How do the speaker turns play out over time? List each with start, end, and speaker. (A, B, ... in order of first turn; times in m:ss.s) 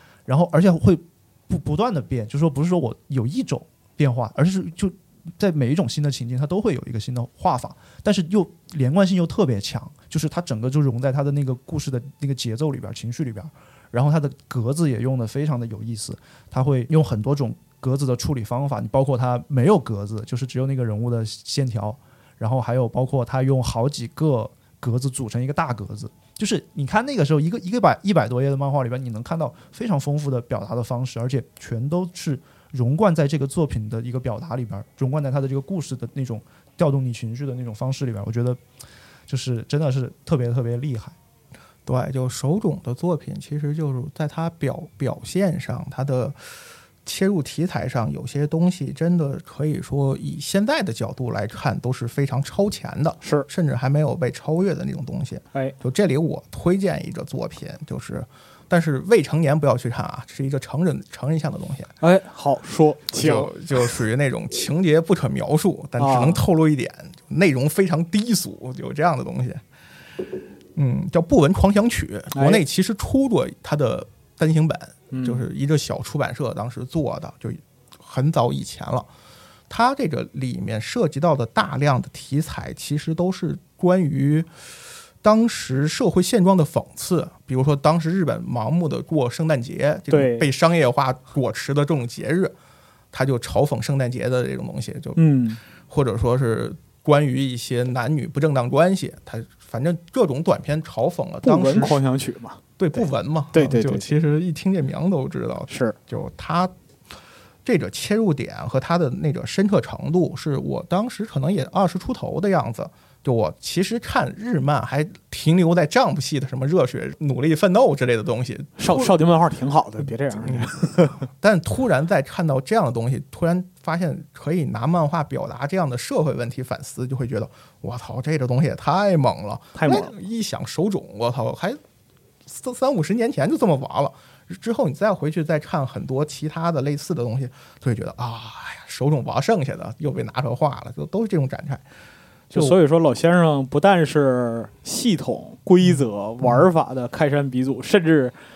0:00.2-0:38.6 A
0:39.3-0:41.2 A
0:41.8-0:46.4 B
0:47.0-1:01.9 B
0:53.2-0:53.5 C
1:02.0-1:03.5 C
1:03.1-1:09.6 B
1:06.0-1:06.4 C
1:10.7-1:19.1 B
1:12.3-1:12.6 C
1:15.1-1:15.4 C
1:19.7-1:24.5 B
1:25.2-1:32.5 B
1:30.1-1:30.5 C
1:33.1-1:35.2 B
1:35.2-1:35.6 C
1:35.9-1:42.0 B
1:41.4-1:44.1 C
1:42.8-1:46.7 B
1:45.7-1:46.0 C
1:47.6-1:59.2 B
1:58.8-2:01.2 C
2:00.4-2:00.7 B
2:01.2-2:11.8 B
2:09.7-2:10.1 C
2:12.4-2:21.8 B
2:22.5-2:22.8 B
2:22.5-2:28.3 C